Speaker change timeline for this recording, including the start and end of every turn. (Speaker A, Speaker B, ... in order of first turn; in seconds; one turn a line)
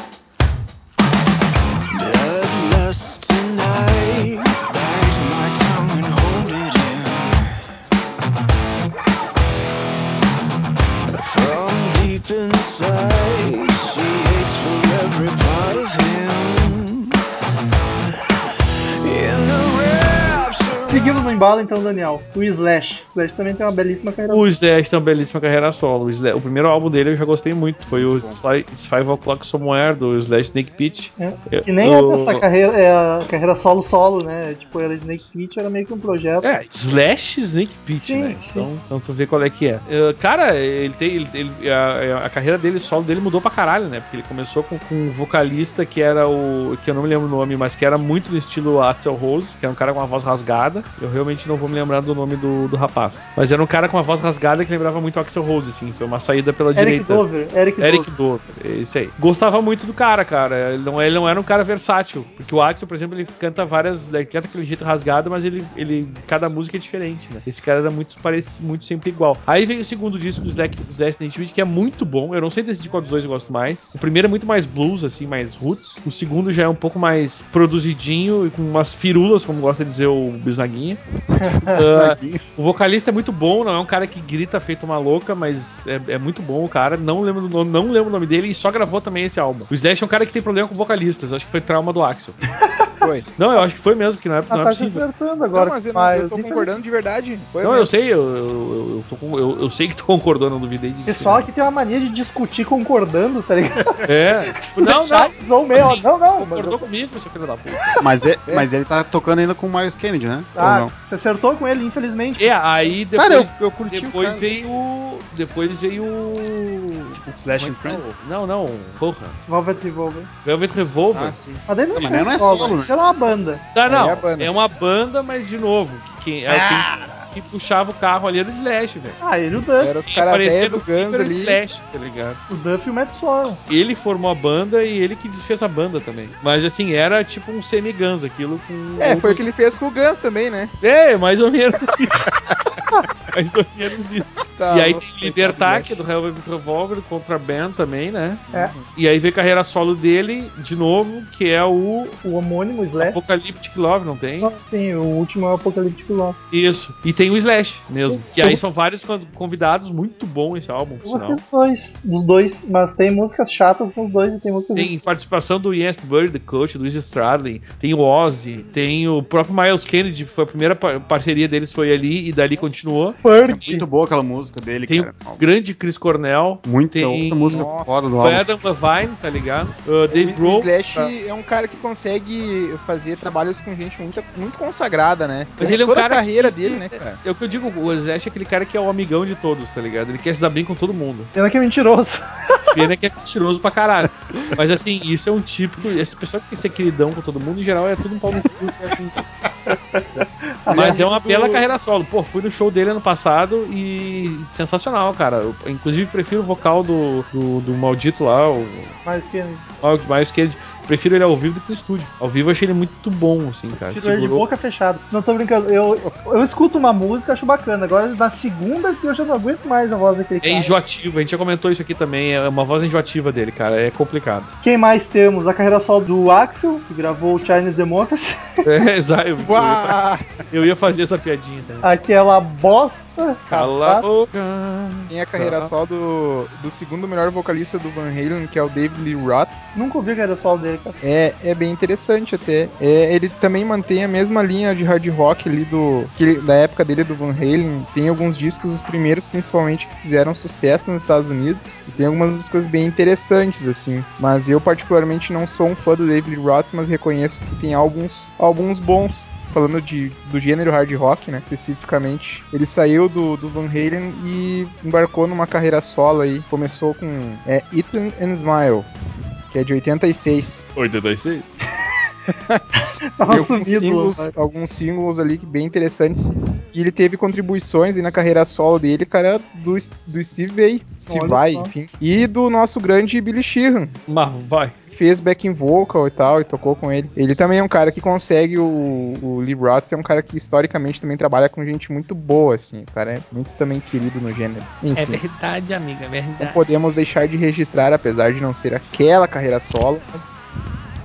Speaker A: 1.9-7.5
Speaker A: 11.1-17.2
Speaker A: 19.0-21.1
Speaker B: 20.9-24.4
Speaker C: 24.2-32.4
Speaker D: 27.9-28.4
Speaker B: 31.2-36.5
Speaker C: 36.4-57.2
Speaker B: 38.0-38.7
Speaker B: 56.8-58.1
Speaker C: 57.8-81.0
Speaker B: 81.4-81.8
Speaker D: 81.7-82.4
Speaker C: 81.8-92.4
Speaker C: 93.3-95.0
Speaker B: 94.5-96.7
Speaker E: 95.5-97.9
Speaker C: 97.6-101.5
Speaker B: 101.1-104.0
Speaker D: 103.9-104.3
Speaker C: 104.0-108.0
Speaker B: 104.5-106.8
Speaker D: 108.0-110.9
Speaker B: 110.5-112.5
Speaker C: 112.4-119.4
Speaker D: 113.2-114.5
Speaker D: 117.2-118.1
Speaker B: 119.5-120.3
Speaker C: 120.4-121.4
Speaker D: 121.1-123.3
Speaker B: 121.7-123.6
Speaker C: 123.7-129.2
Speaker E: 123.9-124.5
Speaker B: 126.5-126.8
Speaker B: 129.2-129.9
Speaker E: 129.8-131.6
Speaker C: 130.1-132.4
Speaker B: 132.5-133.6
Speaker C: 133.7-139.4
Speaker E: 139.0-140.7
Speaker C: 140.8-142.3
Speaker C: 143.3-152.2
Speaker E: 144.6-146.0
Speaker E: 148.5-148.9
Speaker B: 152.2-153.2
Speaker C: 153.0-154.5
Speaker B: 154.4-156.4
Speaker C: 156.5-161.4
Speaker B: 158.0-158.6
Speaker B: 161.0-164.9
Speaker C: 164.7-173.2
Speaker B: 173.2-173.8
Speaker D: 173.4-175.4
Speaker C: 174.9-181.1
Speaker D: 176.6-178.5
Speaker E: 177.5-178.1
Speaker E: 180.1-187.2
Speaker C: 185.6-191.3
Speaker B: 191.3-192.8
Speaker C: 192.7-199.2
Speaker B: 200.6-201.2
Speaker C: 200.7-209.0
Speaker E: 200.8-201.1
Speaker B: 209.0-209.6
Speaker C: 209.8-214.4
Speaker B: 213.9-220.7
Speaker C: 220.4-224.5
Speaker B: 224.6-228.4
Speaker C: 228.6-230.0
Speaker E: 229.4-230.3
Speaker C: 230.5-231.9
Speaker B: 231.8-234.2
Speaker C: 233.5-235.7
Speaker E: 235.1-239.7
Speaker B: 239.7-241.0
Speaker E: 241.0-268.9
Speaker E: 269.5-270.7
Speaker C: 270.8-271.6
Speaker E: 272.3-272.6
Speaker B: 273.2-274.3
Speaker E: 273.2-283.9
Speaker B: 281.1-281.7
Speaker C: 284.1-284.7
Speaker E: 284.9-295.2
Speaker C: 294.9-296.6
Speaker E: 296.4-300.5